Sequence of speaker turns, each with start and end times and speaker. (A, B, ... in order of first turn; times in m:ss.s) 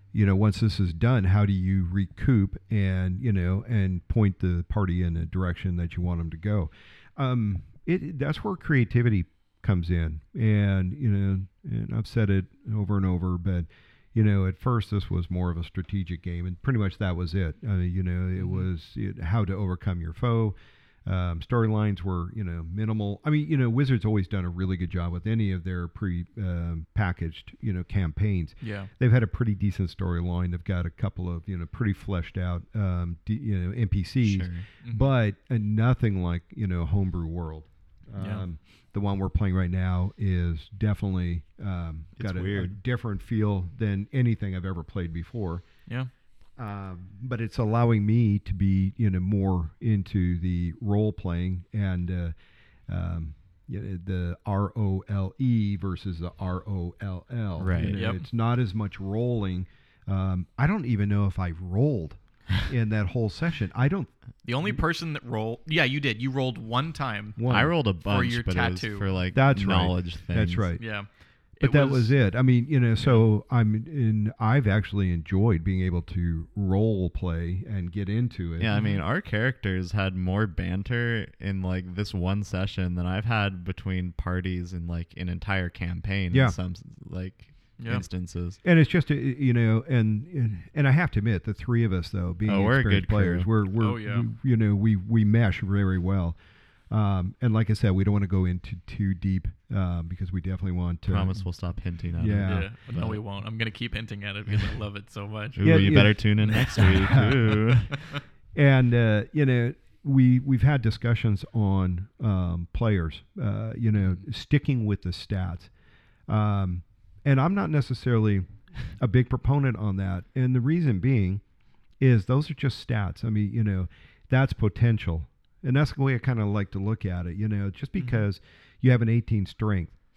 0:00.1-0:45.7 A
0:18.4-0:18.7 B
0:28.6-0:28.9 B
0:34.2-0:34.7 C
0:34.8-0:35.1 B
0:38.2-0:38.5 B
0:42.2-0:42.7 C
0:46.6-0:52.3 A
0:52.9-1:04.8 A
0:57.6-0:58.0 C
0:57.8-0:58.2 B
1:04.4-1:09.2 B
1:07.4-1:07.8 A
1:07.5-1:10.7 C
1:09.3-1:18.8 A
1:10.8-1:12.2 B
1:13.0-1:13.2 B
1:18.6-1:28.6 C
1:18.7-1:19.0 B
1:26.3-1:26.6 A
1:27.8-1:28.0 B
1:28.6-1:41.5 A
1:32.5-1:33.5 C
1:33.8-1:34.3 B
1:41.1-1:43.2 C
1:42.2-1:42.7 A
1:42.4-1:47.6 B
1:45.6-1:48.1 C
1:45.6-1:47.4 A
1:48.5-1:55.7 A
1:56.3-2:01.4 A
2:02.0-2:10.0 A
2:08.0-2:08.2 B